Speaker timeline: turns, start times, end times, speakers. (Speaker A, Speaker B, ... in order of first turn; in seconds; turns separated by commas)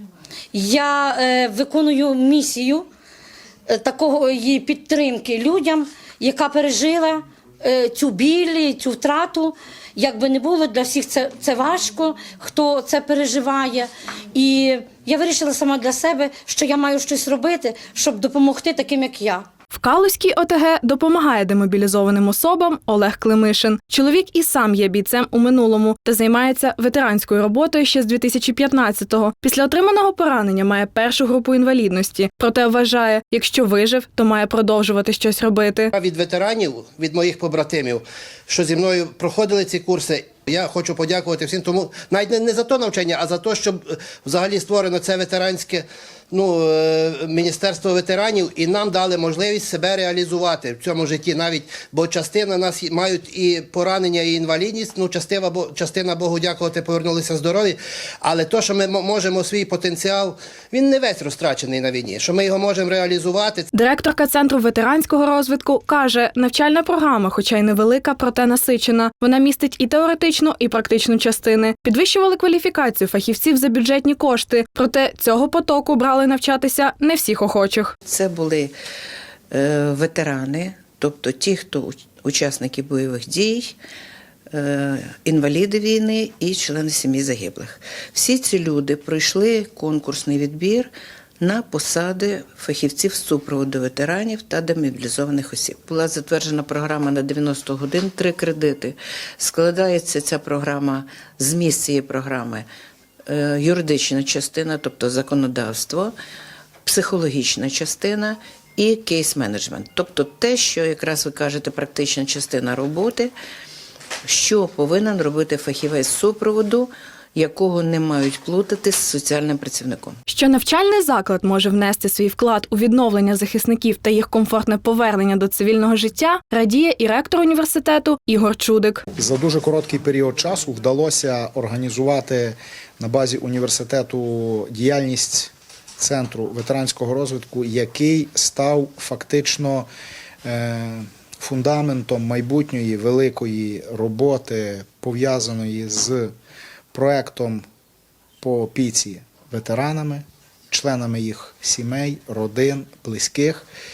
Speaker A: 0.5-2.8, Speaker A: 3.7-19.4, Speaker B: 19.7-35.9, Speaker C: 35.9-63.6, Speaker B: 63.7-77.9, Speaker D: 78.0-78.7, Speaker D: 79.5-83.7, Speaker D: 84.5-102.7, Speaker D: 103.3-106.1, Speaker D: 106.8-113.3, Speaker D: 114.2-120.2, Speaker B: 120.3-129.0, Speaker E: 129.2-139.9, Speaker E: 140.4-146.3, Speaker E: 146.9-147.6, Speaker E: 148.4-153.7